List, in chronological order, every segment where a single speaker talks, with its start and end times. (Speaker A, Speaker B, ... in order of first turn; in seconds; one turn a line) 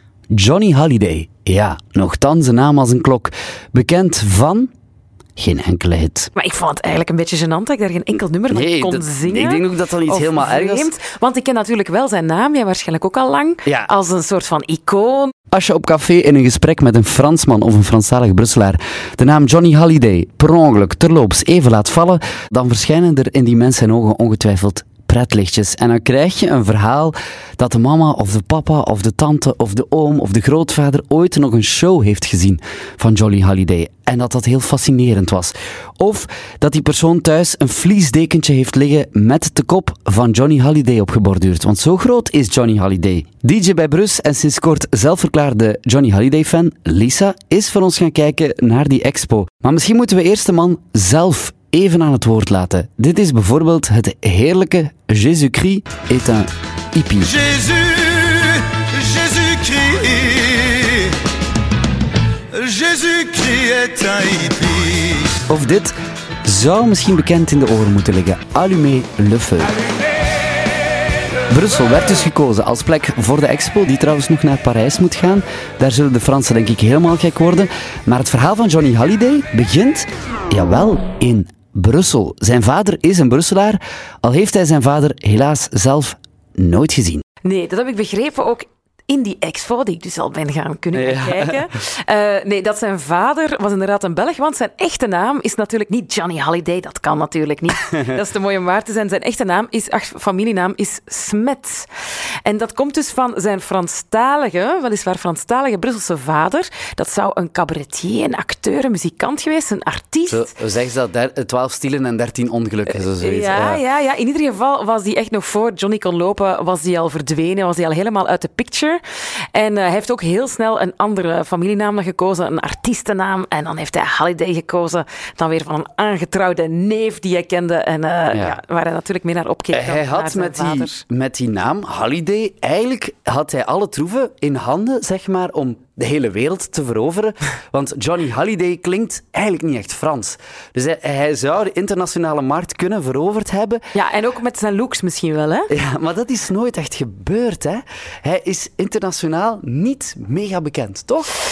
Speaker A: 0.3-4.7
Speaker A: 5.4-6.3
Speaker B: 6.3-15.3
Speaker A: 8.5-10.9
Speaker A: 13.7-13.9
Speaker A: 15.5-57.5
Speaker C: 57.7-58.4
Speaker C: 59.0-60.8
Speaker C: 62.5-65.1
Speaker A: 65.5-66.0
Speaker A: 66.5-69.8
Speaker A: 71.5-87.2
Speaker B: 87.4-101.9
Speaker A: 91.0-91.6
Speaker B: 102.5-110.5
Speaker A: 110.3-113.8
Speaker B: 112.9-119.0
Speaker B: 119.5-131.0
Speaker A: 129.7-143.8
Speaker B: 143.9-145.7
Speaker A: 145.7-151.3